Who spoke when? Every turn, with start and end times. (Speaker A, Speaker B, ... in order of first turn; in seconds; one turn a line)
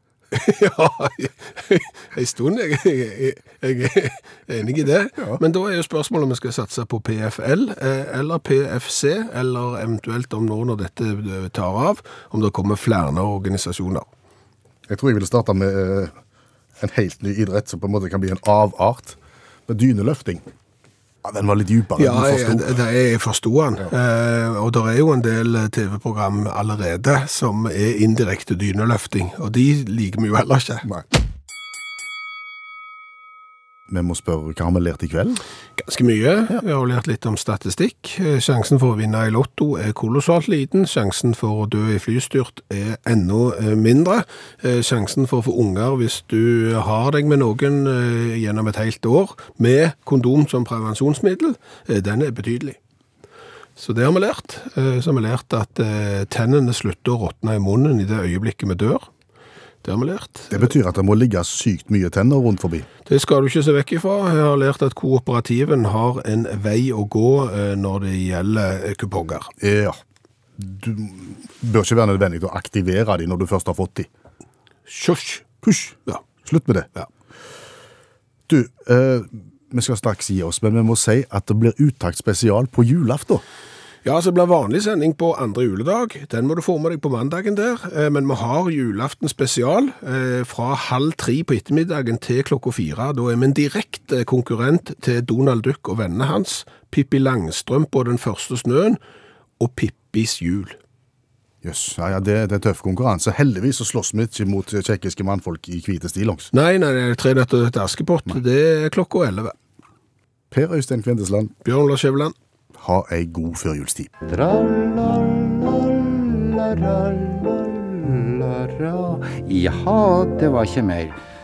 Speaker A: 0.3-14.1
Speaker B: 14.9-16.1
Speaker B: 16.8-20.4
Speaker B: 21.2-22.8
Speaker A: 22.0-30.9
Speaker B: 33.9-35.4
Speaker A: 35.8-52.8
Speaker A: 53.8-59.1
Speaker A: 59.8-60.7
Speaker B: 60.5-62.9
Speaker A: 63.0-69.5
Speaker B: 69.6-70.0
Speaker B: 70.6-74.1
Speaker A: 74.9-75.4
Speaker B: 75.6-76.9
Speaker B: 78.5-83.4
Speaker A: 84.0-99.0
Speaker A: 99.6-100.8
Speaker B: 101.6-106.5
Speaker A: 106.5-109.5
Speaker B: 110.5-111.5
Speaker A: 111.6-112.3
Speaker B: 112.8-114.1
Speaker C: 114.3-121.2